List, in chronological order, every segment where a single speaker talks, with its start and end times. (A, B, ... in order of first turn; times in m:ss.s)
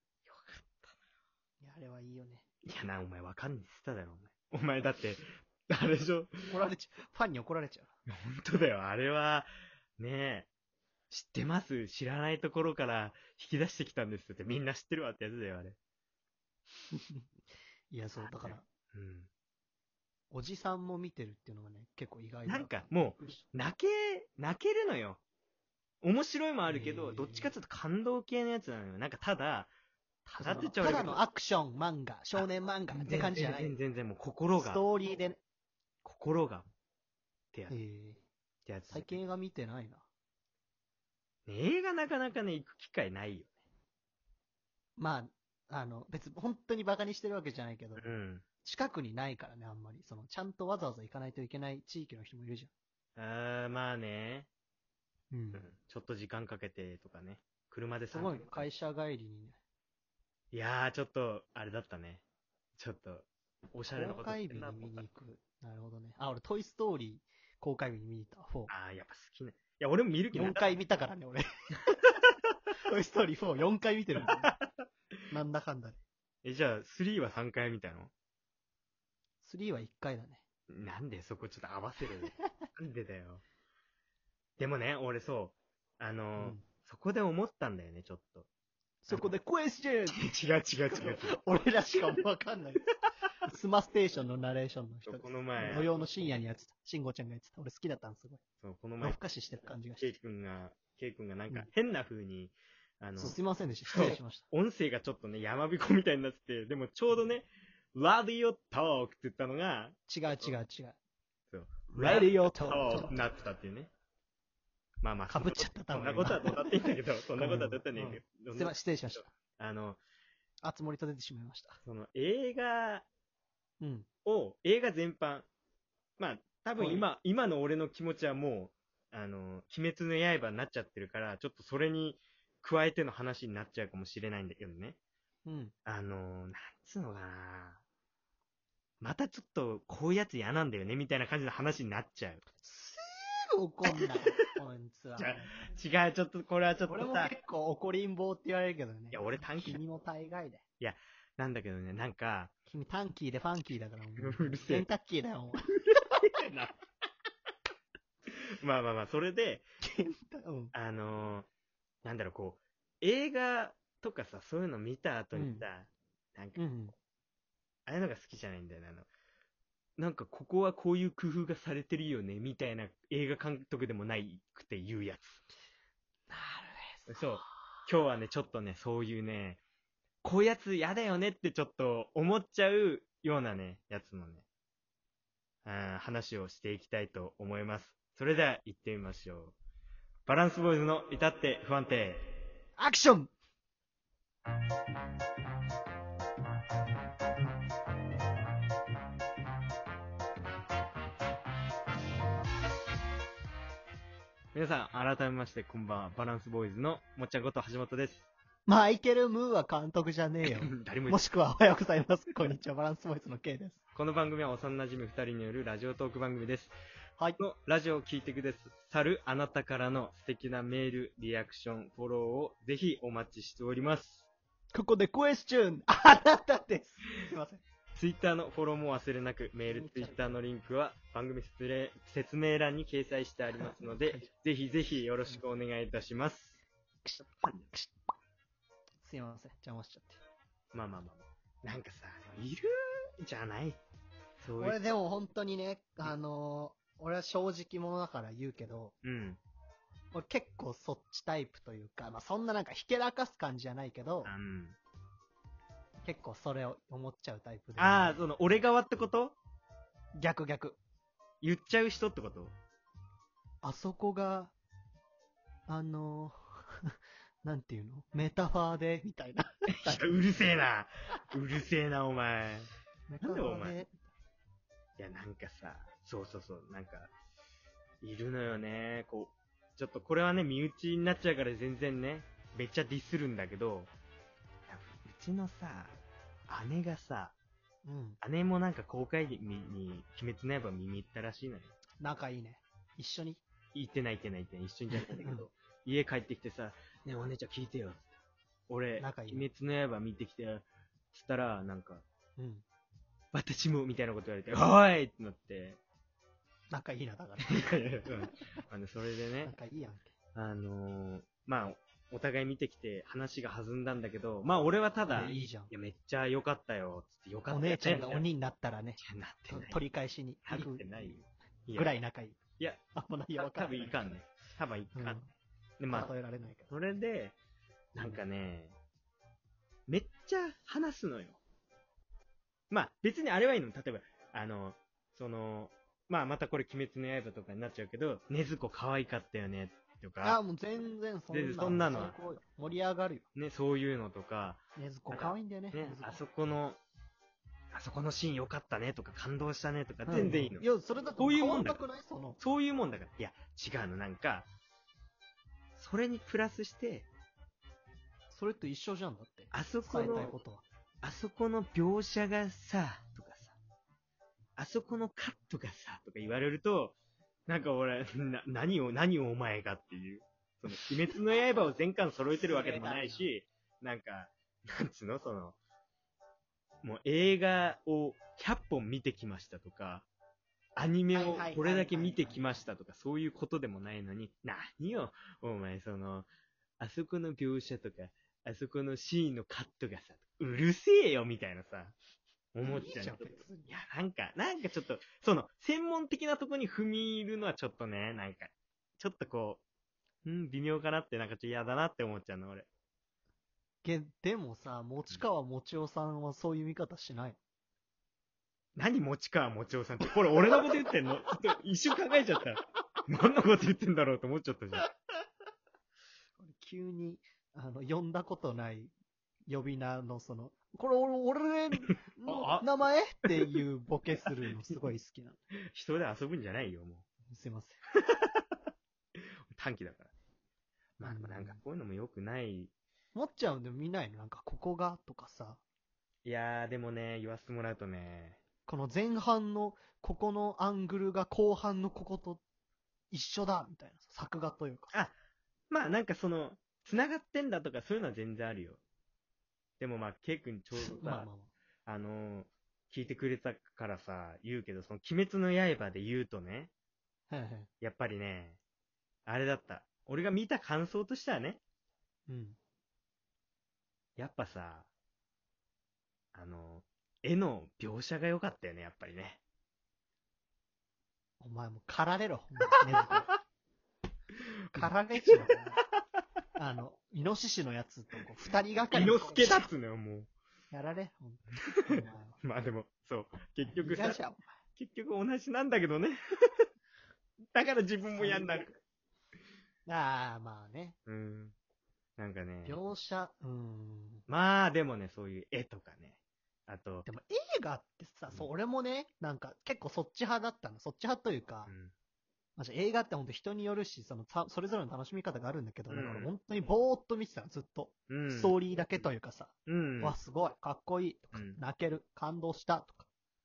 0:00.3-0:01.0 A
0:01.6-0:02.5 B
0:02.7-0:06.3 A
0:06.5-0:07.9 B
0:08.1-0:10.5 A
0:11.1-0:15.8 A
0:16.9-0:17.3 B
0:17.9-0:18.7 B
0:18.3-0:19.3 A
0:20.3-0:23.4 B
0:22.4-0:25.2 A
0:26.0-0:29.7 A
0:26.7-0:27.5 B
0:30.3-0:33.7 B
0:30.4-0:31.2 A
0:32.3-0:34.8 A
0:34.6-0:35.4 B
0:36.0-0:36.7 A
0:37.7-0:38.2 B
0:38.6-0:39.2 A
0:38.9-0:40.0 B
0:41.4-0:43.5 A
0:45.0-0:48.1 B
0:48.0-0:48.4 A
0:48.6-0:52.7 B
0:53.2-0:54.5 A
0:55.3-0:55.7 B
0:55.5-0:58.7 A
0:58.1-0:59.6 B
1:00.5-1:02.2 A
1:02.8-1:05.0 A
1:03.9-1:08.7 B
1:08.7-1:10.8 A
1:10.3-1:11.4 B
1:12.9-1:14.5 B
1:14.2-1:14.9 A
1:15.3-1:16.0 B
1:16.4-1:18.1 A
1:19.4-1:20.4 B
1:20.7-1:23.4 A
1:24.6-1:28.5 A
1:26.4-1:26.6 B
1:29.0-1:30.2 B
1:30.1-1:31.4 A
1:30.9-1:32.8 B
1:33.4-1:38.4 B
1:35.0-1:36.0 A
1:38.6-1:39.2 A
1:39.0-1:40.1 B
1:40.0-1:50.6 A
1:43.2-1:44.4 B
1:50.1-1:51.0 B
1:51.5-1:53.9 A
1:51.9-1:53.2 B
1:55.0-2:00.0 A
1:55.3-1:59.3 B
2:00.6-2:01.8 B
2:01.8-2:03.1 A
2:03.8-2:04.1 B
2:04.2-2:05.5 A
2:06.2-2:15.0 A
2:06.8-2:07.1 B
2:15.4-2:15.7 B
2:15.8-2:17.8 A
2:19.0-2:22.4 A
2:22.6-2:25.5 B
2:23.8-2:24.3 A
2:25.2-2:27.3 A
2:26.9-2:30.6 B
2:29.1-2:29.8 A
2:30.8-2:32.5 A
2:32.7-2:35.6 B
2:34.2-2:34.9 A
2:36.2-2:36.8 A
2:38.3-2:39.7 A
2:39.8-2:40.7 B
2:40.7-2:41.5 A
2:42.0-2:46.6 A
2:45.3-2:45.7 B
2:46.6-2:46.9 B
2:47.8-2:49.1 A
2:50.0-2:55.4 A
2:56.3-2:57.4 B
2:57.1-2:59.6 A
3:00.2-3:04.4 A
3:05.6-3:09.6 A
3:10.2-3:12.4 A
3:12.8-3:13.3 B
3:24.5-3:28.3 A
3:28.7-3:33.8 B
3:30.5-3:31.2 A
3:33.9-3:36.7 A
3:37.4-3:44.3 A
3:44.7-3:47.6 B
3:48.0-3:56.6 A
3:49.7-3:50.4 B
3:53.5-3:54.3 B
3:57.0-3:57.9 B
3:57.4-3:57.7 A
3:59.0-4:00.2 B
4:00.7-4:02.7 A
4:03.2-4:03.8 A
4:04.4-4:04.8 A
4:04.6-4:08.9 B
4:09.0-4:09.4 A
4:10.1-4:14.3 B
4:14.2-4:14.8 A
4:16.0-4:18.2 B
4:17.8-4:19.4 A
4:20.2-4:20.8 B
4:21.4-4:22.5 A
4:23.6-4:24.5 B
4:25.7-4:26.8 B
4:27.4-4:30.2 B
4:29.8-4:32.7 A
4:33.1-4:34.0 B
4:33.2-4:33.8 A
4:35.0-4:37.1 A
4:38.0-4:43.9 A
4:44.7-4:46.0 A
4:46.5-4:47.3 A
4:47.8-4:48.2 B
4:48.2-4:51.7 A
4:52.0-4:53.4 B
4:53.7-4:58.0 A
4:55.2-4:55.5 B
4:58.7-5:02.0 A
4:59.0-4:59.5 B
5:02.4-5:02.6 B
5:03.3-5:05.8 A
5:06.7-5:08.4 B
5:07.7-5:09.5 A
5:09.4-5:10.1 B
5:10.3-5:18.2 A
5:15.1-5:15.7 B
5:17.5-5:21.2 B
5:19.0-5:19.8 A
5:20.4-5:21.9 A
5:21.8-5:22.4 B
5:22.9-5:24.2 B
5:23.3-5:25.2 A
5:24.9-5:25.3 B
5:25.8-5:26.1 A
5:25.9-5:26.7 B
5:26.7-5:27.3 A
5:27.9-5:28.8 A
5:28.0-5:28.2 B
5:29.9-5:31.4 A
5:32.7-5:40.4 A
5:40.2-5:43.2 B
5:41.3-5:42.2 A
5:43.3-5:46.8 A
5:44.8-5:46.2 B
5:47.7-5:50.6 A
5:50.1-5:52.4 B
5:51.2-5:51.8 A
5:52.4-5:54.5 A
5:55.8-5:57.1 A
5:58.3-6:00.6 B
5:59.5-6:00.4 A
6:01.0-6:03.6 A
6:04.6-6:07.0 A
6:07.5-6:15.6 A
6:12.4-6:13.3 B
6:16.8-6:20.1 A
6:20.8-6:26.3 A
6:21.1-6:22.4 B
6:26.8-6:32.0 A
6:32.5-6:39.6 A
6:32.6-6:33.7 B
6:40.2-6:42.7 A
6:43.8-6:47.4 B
6:48.8-6:54.9 A
6:56.4-6:58.9 B
6:59.5-7:05.4 B
7:02.3-7:02.7 A
7:05.7-7:07.0 A
7:07.3-7:07.8 B
7:08.0-7:08.4 A
7:09.5-7:10.1 A
7:11.0-7:12.7 A
7:11.0-7:11.6 B
7:13.1-7:15.6 B
7:16.2-7:18.4 A
7:18.7-7:22.4 B
7:23.1-7:25.0 B
7:25.7-7:28.8 A
7:29.8-7:31.3 A
7:30.7-7:31.5 B
7:31.9-7:36.7 A
7:37.3-7:37.7 B
7:37.8-7:38.6 A
7:39.2-7:41.6 A
7:42.3-7:42.6 B
7:44.2-7:44.9 A
7:46.3-7:49.4 A
7:51.4-7:53.3 B
7:54.7-7:55.5 A
7:54.7-7:55.8 B
7:56.6-7:59.7 B
7:58.9-8:00.3 A
8:00.7-8:02.4 B
8:01.6-8:04.2 A
8:03.7-8:04.5 B
8:04.8-8:06.2 A
8:07.5-8:08.7 A
8:08.0-8:08.8 B
8:09.9-8:11.0 B
8:11.1-8:11.5 A
8:12.2-8:12.8 A
8:12.6-8:14.2 B
8:14.3-8:17.1 A
8:17.1-8:21.7 B
8:21.6-8:21.9 A
8:22.6-8:33.1 B
8:25.9-8:26.3 A
8:28.1-8:29.0 A
8:29.7-8:30.2 A
8:31.3-8:31.6 A